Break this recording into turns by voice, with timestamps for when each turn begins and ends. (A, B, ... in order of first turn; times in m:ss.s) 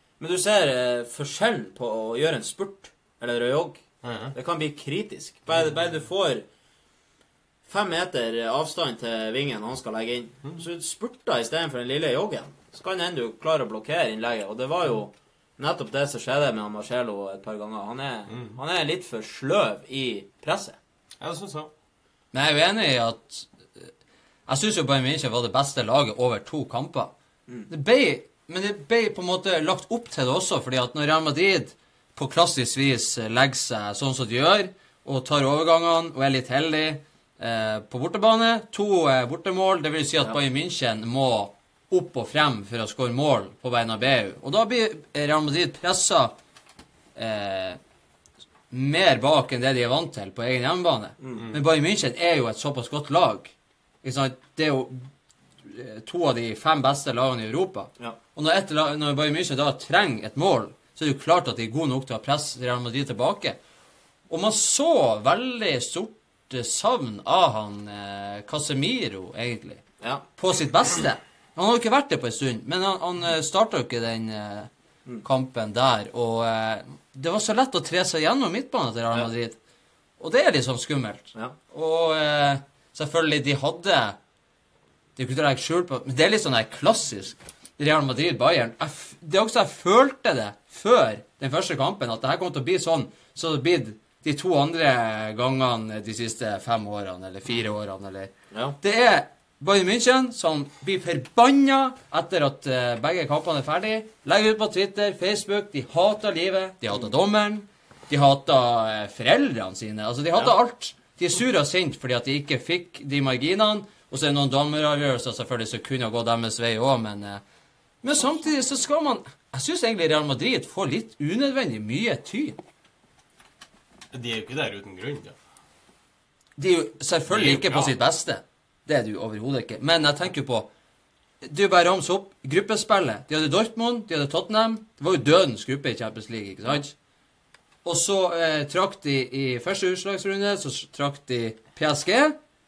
0:00.2-0:03.8 A
0:04.0-0:04.3 B
0:04.3-0:06.4 A
0:07.7-0:20.8 A
0:18.3-0:18.6 B
0:21.2-0:21.7 B
0:22.3-0:23.9 C
0:24.5-0:27.1 C
0:27.7-0:46.3 C
0:47.2-0:47.8 C
0:48.7-0:55.1 C
0:51.2-0:51.5 A
0:55.6-1:03.6 C
1:04.3-1:09.8 C
1:10.4-1:14.7 C
1:15.2-1:19.6 C
1:20.2-1:24.2 C
1:25.2-1:57.4 C
1:38.5-1:38.8 A
1:58.0-2:02.6 C
2:04.1-2:05.3 B
2:06.6-2:10.7 C
2:07.3-2:08.0 B
2:11.4-2:17.0 C
2:17.8-2:22.4 C